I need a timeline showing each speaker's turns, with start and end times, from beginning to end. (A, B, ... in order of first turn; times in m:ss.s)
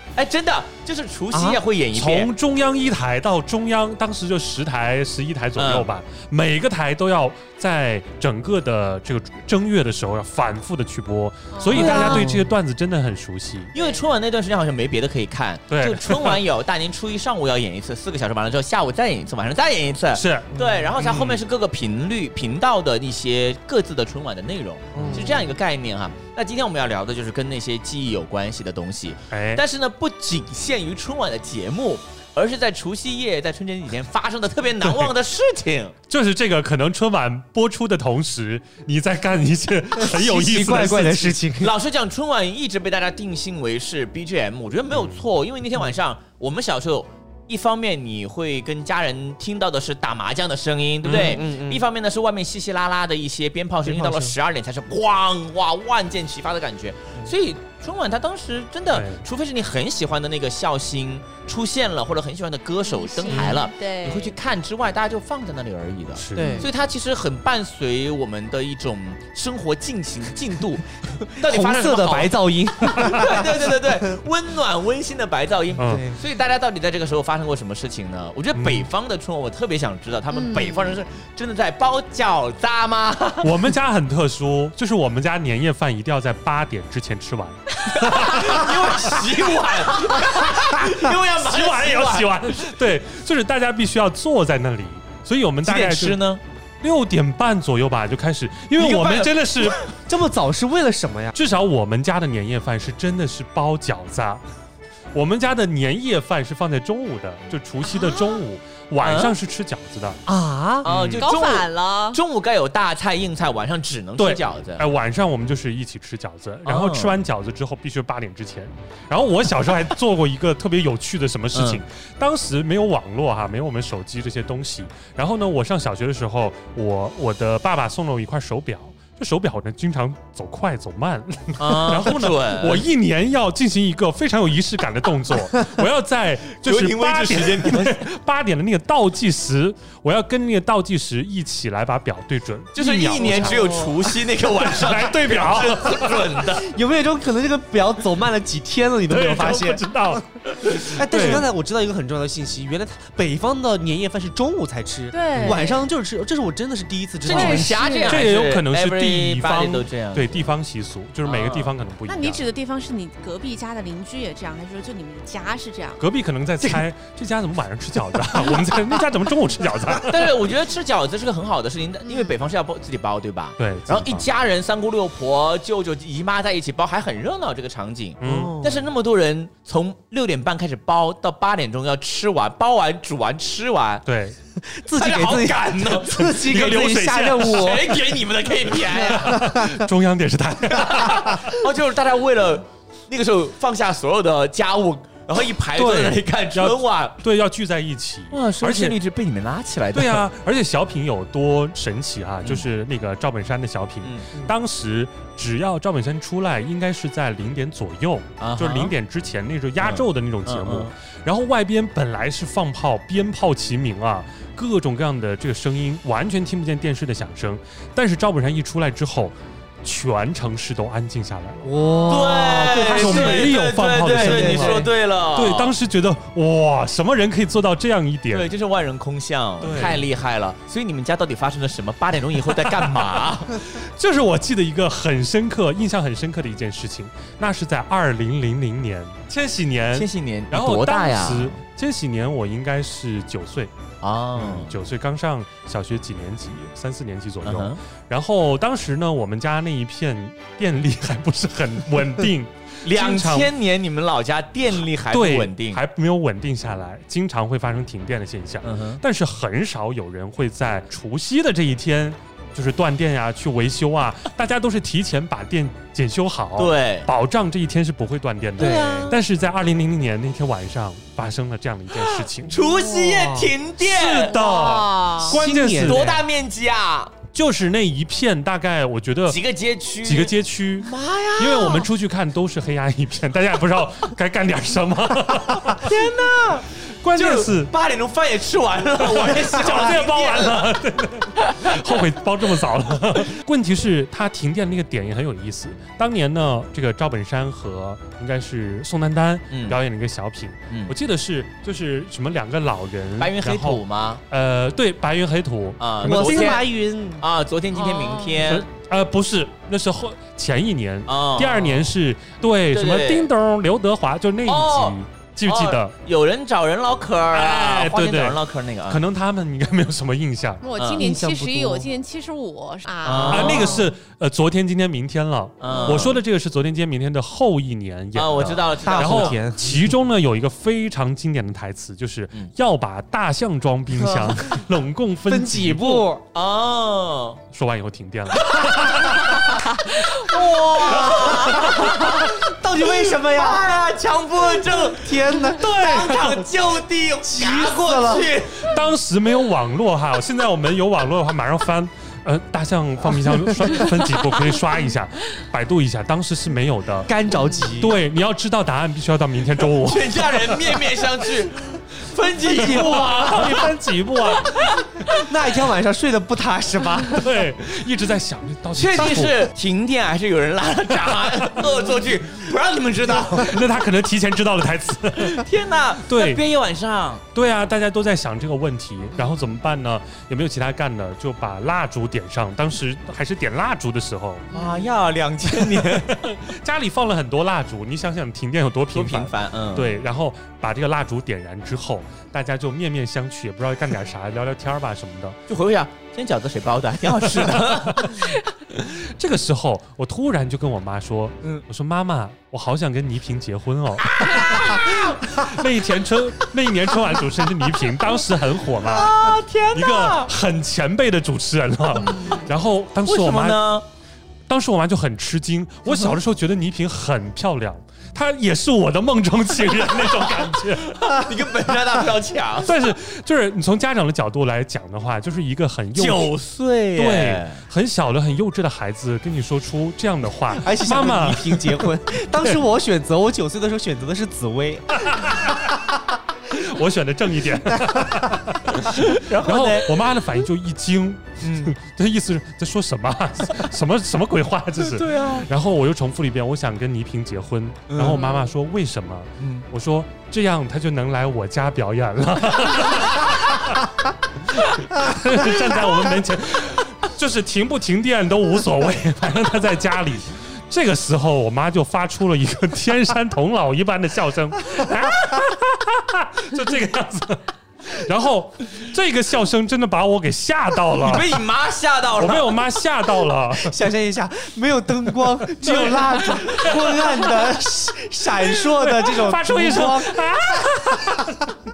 0:00.2-0:02.3 A
0:01.3-0:01.6 B
0:01.9-0:13.7 C
0:05.6-0:05.9 A
0:11.5-0:12.3 D
0:11.7-0:12.3 A
0:11.8-0:12.5 B
0:13.7-0:36.0 A
0:13.7-0:14.0 D
0:15.7-0:16.4 C
0:20.1-0:20.5 C
0:21.0-0:21.4 B
0:24.9-0:25.4 B
0:25.0-0:25.4 C
0:29.3-0:29.6 C
0:34.8-0:35.1 C
0:36.1-0:41.4 C
0:40.0-0:41.7 B
0:41.6-1:23.6 A
0:51.0-0:51.8 B
0:51.0-0:51.4 C
0:53.9-0:54.3 C
0:58.9-0:59.2 C
1:02.8-1:04.4 D
1:03.3-1:03.6 C
1:06.2-1:06.6 C
1:06.4-1:06.7 B
1:06.4-1:06.7 D
1:11.4-1:14.2 B
1:15.8-1:16.1 C
1:15.9-1:16.2 B
1:18.5-1:18.9 C
1:20.3-1:21.0 D
1:23.4-1:29.3 C
1:27.9-1:32.3 A
1:30.9-1:36.2 C
1:35.6-1:36.4 A
1:36.8-1:39.9 C
1:38.8-1:39.8 A
1:40.1-1:41.4 B
1:41.4-1:44.4 C
1:45.1-1:50.2 C
1:47.8-1:48.4 D
1:49.0-1:49.3 A
1:50.3-1:50.9 B
1:50.8-1:54.9 A
1:50.8-1:51.3 C
1:51.2-1:52.2 D
1:54.2-2:26.4 C
1:56.7-1:57.2 A
2:01.5-2:01.8 A
2:11.6-2:12.9 A
2:16.6-2:18.1 A
2:22.8-2:26.7 A
2:23.2-2:23.9 B
2:26.6-2:29.8 B
2:29.1-2:31.5 C
2:30.8-2:37.8 B
2:35.1-2:35.8 D
2:37.2-2:40.5 A
2:37.3-2:38.2 D
2:38.1-2:42.4 C
2:41.2-2:41.7 A
2:42.1-2:46.0 D
2:46.0-2:50.4 C
2:50.1-3:04.0 A
2:52.0-2:52.4 D
2:53.6-2:54.3 C
2:58.2-2:58.6 C
2:58.2-2:58.8 B
3:04.1-3:04.4 C
3:04.6-3:08.0 B
3:04.9-3:06.4 A
3:06.3-3:07.8 C
3:07.5-3:09.4 A
3:08.9-3:11.5 C
3:08.9-3:09.8 B
3:11.0-3:17.2 A
3:15.8-3:19.0 C
3:18.3-3:20.2 A
3:19.9-3:41.7 C
3:28.4-3:28.9 A
3:29.8-3:30.9 A
3:41.6-3:44.9 B
3:41.8-3:42.3 D
3:42.1-3:45.7 A
3:42.3-3:48.5 C
3:48.3-3:53.6 A
3:49.6-3:50.1 C
3:52.5-4:03.7 C
3:59.9-4:01.6 A
4:04.0-4:04.8 A
4:04.4-4:13.5 C
4:07.4-4:07.8 A
4:12.8-4:15.8 A
4:15.1-4:32.6 C
4:18.6-4:19.0 A
4:26.6-4:27.1 A
4:28.6-4:29.2 B
4:28.6-4:29.1 D
4:28.6-4:29.2 A
4:32.1-4:34.4 A
4:32.6-4:33.5 B
4:33.8-4:36.2 C
4:34.3-4:35.4 D
4:35.2-4:36.1 B
4:35.8-4:37.2 A
4:37.3-4:39.4 C
4:39.3-4:41.9 A
4:40.0-4:45.9 C
4:45.8-4:50.7 A
4:47.0-4:47.7 C
4:49.0-5:06.6 C
4:59.5-4:59.8 A
5:03.2-5:04.2 A
5:05.8-5:08.7 A
5:06.0-5:07.2 B
5:07.7-5:08.5 D
5:08.4-5:15.9 C
5:11.1-5:11.8 A
5:12.7-5:13.3 A
5:14.4-5:19.0 A
5:17.3-5:20.6 C
5:20.6-5:23.8 D
5:20.8-5:21.0 A
5:21.0-5:21.9 B
5:23.0-5:23.8 A
5:23.3-5:36.1 C
5:25.6-5:26.2 A
5:28.2-5:29.4 A
5:28.8-5:29.9 B
5:34.0-5:34.4 B
5:35.3-5:36.2 B
5:36.3-5:37.4 A
5:37.5-5:39.6 C
5:38.5-5:48.7 A
5:40.9-5:43.6 B
5:44.6-5:46.5 B
5:47.2-5:48.3 B
5:48.6-5:57.1 C
5:57.1-5:58.0 B
5:57.8-6:00.8 C
5:59.8-6:03.7 A
6:02.5-6:04.8 C
6:04.4-6:04.7 A
6:05.1-6:07.3 B
6:07.1-6:09.5 C
6:08.7-6:13.6 A
6:13.1-6:15.5 C
6:15.2-6:17.2 A
6:16.1-6:16.4 C
6:17.3-6:24.5 C
6:24.5-6:26.2 A
6:24.5-6:24.8 D
6:25.5-6:35.4 C
6:28.9-6:30.0 A
6:35.5-6:38.2 A
6:37.2-6:53.6 C
6:44.2-6:45.2 A
6:48.8-6:50.3 A
6:52.0-6:52.5 D
6:53.0-6:53.8 A
6:54.5-7:01.2 C
6:55.9-6:56.1 A
7:00.9-7:02.7 A
7:02.6-7:06.3 C
7:06.0-7:07.6 A
7:07.0-7:11.9 C
7:10.6-7:15.1 B
7:15.0-7:15.8 C
7:16.5-7:33.9 C
7:18.9-7:20.0 A
7:21.4-7:21.7 A
7:24.8-7:25.5 A
7:27.9-7:28.2 A
7:28.1-7:28.5 D
7:29.4-7:29.7 A
7:34.5-7:51.4 C
7:51.0-7:52.6 A
7:52.2-7:53.8 C
7:53.6-8:00.2 B
7:55.6-7:57.5 C
7:58.6-8:01.5 C